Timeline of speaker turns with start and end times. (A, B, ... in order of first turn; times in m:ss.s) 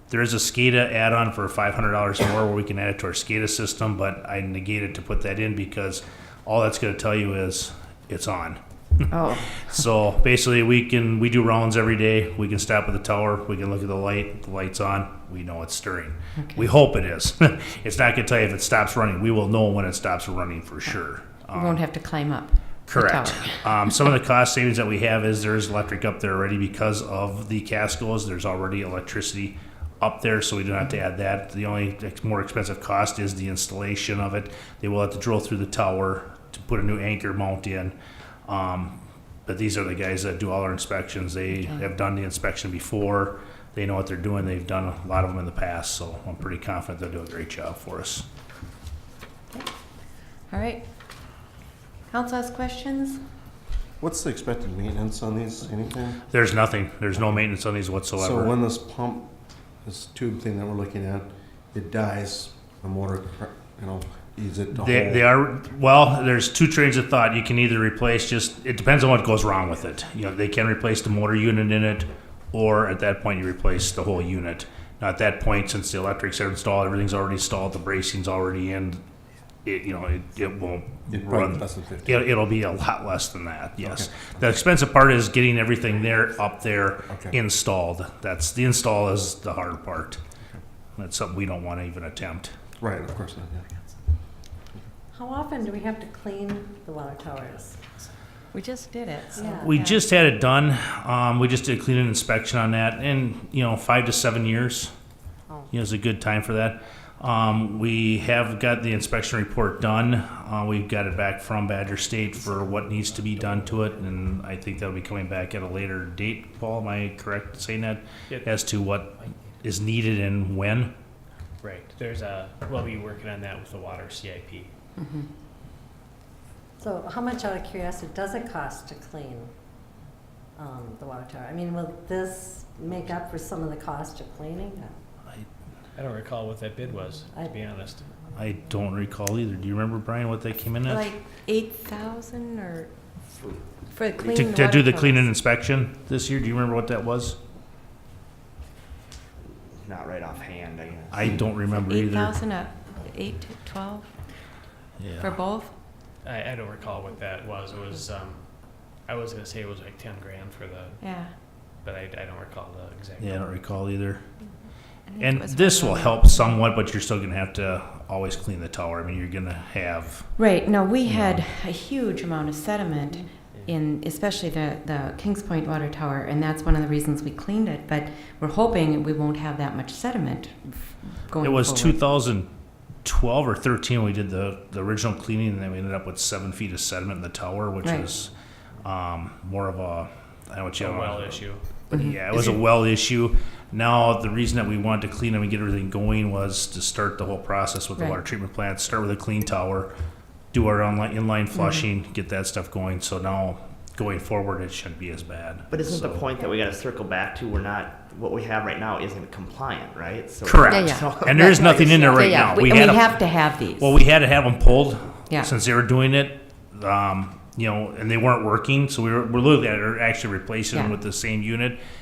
0:00.1-0:08.6 A
0:09.1-0:09.8 B
0:09.4-0:21.8 A
0:16.4-0:16.8 B
0:21.5-0:24.0 B
0:22.9-0:38.0 A
0:38.5-0:48.3 A
0:41.5-0:41.9 B
0:49.5-0:51.4 B
0:52.1-0:53.2 B
0:54.0-0:56.3 C
0:56.3-0:58.5 A
0:58.2-1:05.3 C
1:04.7-1:19.0 A
1:19.6-1:30.2 A
1:21.1-1:22.2 C
1:23.8-1:24.3 C
1:27.1-1:27.4 C
1:31.0-1:32.5 A
1:32.8-1:33.7 C
1:35.1-1:37.8 D
1:38.5-1:40.0 B
1:39.3-1:39.7 D
1:39.6-1:44.9 A
1:45.7-2:00.9 A
1:53.4-1:54.0 E
2:01.6-2:04.7 E
2:05.0-2:05.3 B
2:06.8-2:09.5 D
2:10.6-2:15.0 D
2:16.0-2:18.2 E
2:17.3-2:17.7 D
2:18.4-2:21.1 A
2:20.9-2:23.2 B
2:23.3-2:24.5 F
2:23.9-2:25.3 B
2:24.3-2:27.4 A
2:29.7-2:31.6 F
2:31.1-2:32.4 A
2:31.7-2:34.2 B
2:35.0-2:35.3 A
2:35.2-2:35.8 B
2:36.2-2:43.7 E
2:41.0-2:41.4 B
2:43.2-2:44.2 A
2:45.1-2:46.5 B
2:45.2-2:50.3 A
2:50.4-3:02.0 B
2:51.0-2:51.4 A
3:01.4-3:19.9 A
3:07.8-3:08.1 B
3:10.8-3:11.7 E
3:11.9-3:12.4 B
3:20.5-3:26.3 A
3:21.6-3:21.9 B
3:25.7-3:32.7 F
3:30.4-3:41.8 A
3:30.7-3:34.0 B